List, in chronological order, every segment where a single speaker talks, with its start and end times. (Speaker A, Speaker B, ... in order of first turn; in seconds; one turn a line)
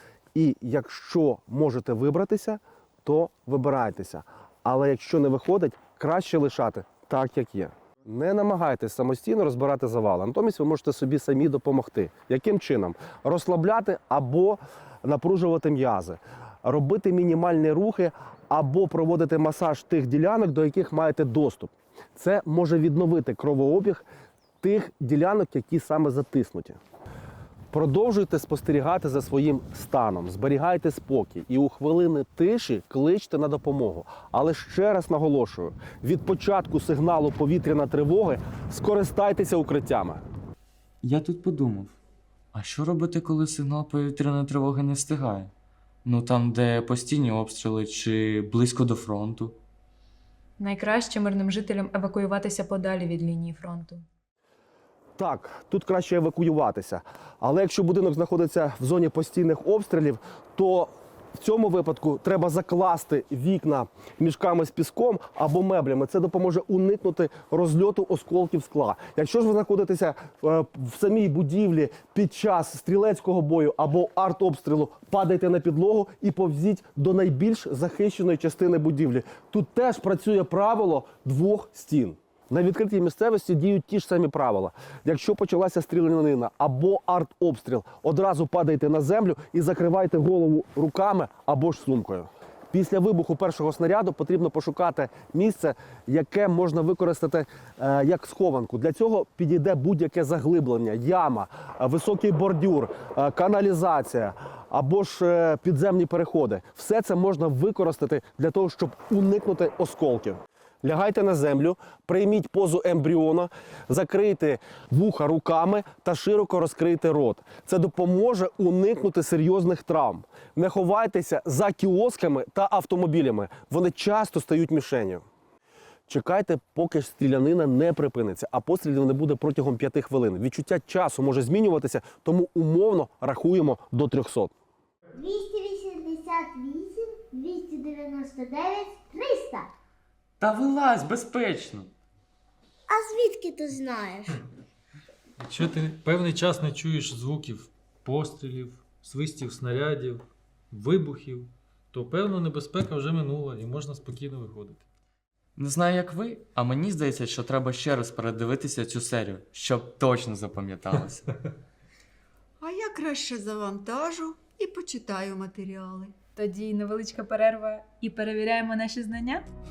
Speaker A: 0.3-24.1
Speaker A: 24.6-26.8
Speaker A: 27.7-40.2
Speaker B: 41.0-42.0
Speaker B: 42.5-45.5
Speaker B: 46.0-49.6
Speaker C: 50.6-54.0
Speaker A: 55.2-125.2
Speaker A: 126.1-134.5
Speaker D: 135.1-139.7
Speaker B: 140.4-141.9
Speaker D: 142.9-144.4
Speaker E: 145.4-154.8
Speaker B: 155.6-161.3
Speaker F: 162.6-166.1
Speaker C: 166.3-169.4